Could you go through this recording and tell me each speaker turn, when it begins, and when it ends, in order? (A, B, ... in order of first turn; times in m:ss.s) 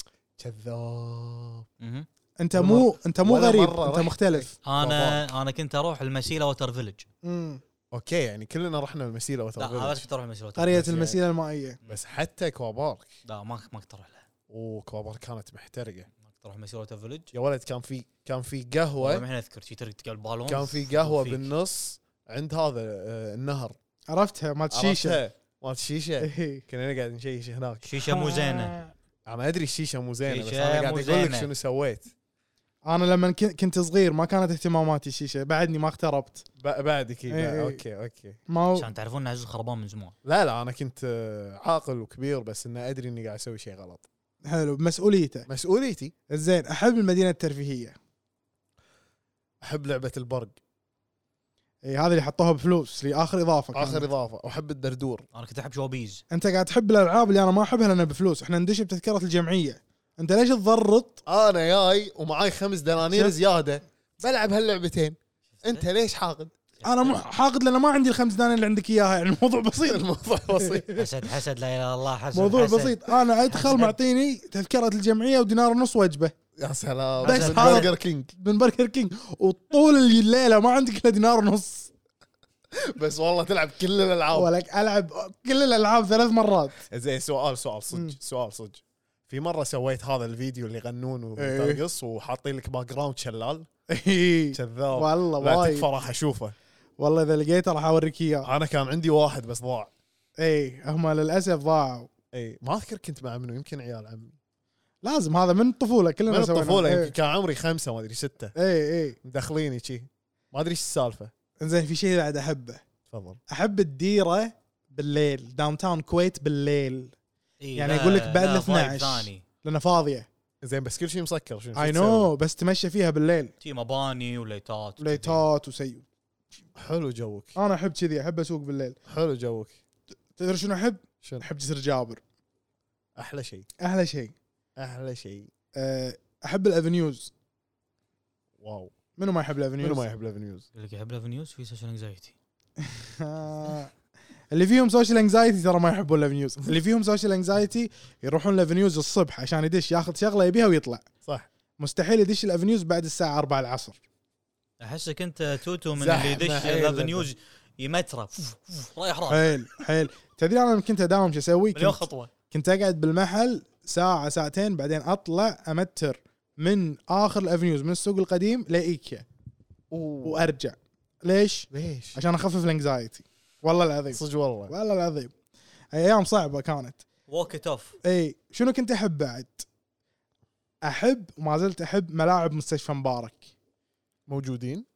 0:00.4-0:01.7 A
0:01.8-0:02.1 B
0:02.4-0:04.5 C
0:02.5-0:05.3 A
0:04.6-0:07.1 B
0:07.2-0:07.6 C
0:07.9-0:10.0 A
0:09.6-0:11.0 B
0:10.6-0:11.8 C
0:10.8-0:11.2 A
0:11.9-0:13.1 A
0:13.2-0:14.2 B
0:14.5-0:16.1 A
0:16.2-0:17.3 B
0:17.3-0:19.2 A
0:19.0-0:21.4 B
0:20.5-0:23.8 A
0:24.1-0:25.2 C
0:24.7-0:27.9 A
0:26.2-0:26.6 C
0:27.9-0:28.8 B
0:28.1-0:28.9 C
0:29.3-0:32.1 A
0:30.3-0:31.5 B
0:32.8-0:36.4 C
0:36.6-0:38.4 A
0:37.3-0:37.8 C
0:38.5-0:38.9 C
0:38.8-0:40.2 B
0:40.2-0:44.1 A
0:44.4-0:45.5 C
0:45.5-0:46.1 A
0:46.3-0:48.0 C
0:49.6-0:50.6 A
0:51.8-0:54.1 C
0:53.7-0:55.2 A
0:55.4-0:56.2 B
0:56.3-1:01.2 C
1:01.3-1:06.5 A
1:05.6-1:05.9 B
1:06.8-1:10.9 C
1:09.9-1:11.0 A
1:11.0-1:14.0 B
1:12.3-1:16.3 C
1:16.6-1:18.3 A
1:17.2-1:17.9 B
1:17.2-1:21.9 C
1:22.7-1:24.5 A
1:24.3-1:26.8 C
1:26.9-1:33.7 A
1:31.4-1:31.8 C
1:33.9-1:35.9 C
1:34.5-1:36.6 A
1:37.0-1:38.5 C
1:38.4-1:39.9 A
1:40.4-1:42.1 C
1:42.3-1:44.4 A
1:45.0-1:47.1 C
1:46.3-1:48.5 A
1:48.6-1:49.2 C
1:49.2-1:51.3 A
1:51.6-1:52.8 C
1:53.1-1:53.4 A
1:53.5-1:57.1 C
1:57.6-1:59.4 B
1:57.8-2:00.3 C
2:00.6-2:02.3 A
2:01.8-2:03.5 C
2:03.6-2:05.4 B
2:05.0-2:06.0 C
2:06.8-2:07.6 A
2:07.6-2:09.0 C
2:09.1-2:09.8 A
2:10.4-2:12.2 C
2:13.2-2:13.7 A
2:13.8-2:14.3 C
2:14.8-2:15.5 A
2:15.8-2:17.3 C
2:18.6-2:18.9 A
2:19.2-2:20.0 C
2:19.8-2:20.6 A
2:20.7-2:22.4 B
2:22.8-2:23.9 C
2:24.5-2:31.0 C
2:31.8-2:34.0 C
2:34.8-2:39.4 B
2:36.0-2:37.3 A
2:39.3-2:49.2 C
2:41.8-2:42.3 B
2:49.9-2:50.4 A
2:50.2-2:55.3 C
2:51.7-2:52.2 A
2:54.1-2:54.7 A
2:55.9-2:57.0 C
2:57.3-2:58.0 B
2:58.0-2:59.7 C
3:00.8-3:03.5 C
3:04.3-3:04.9 A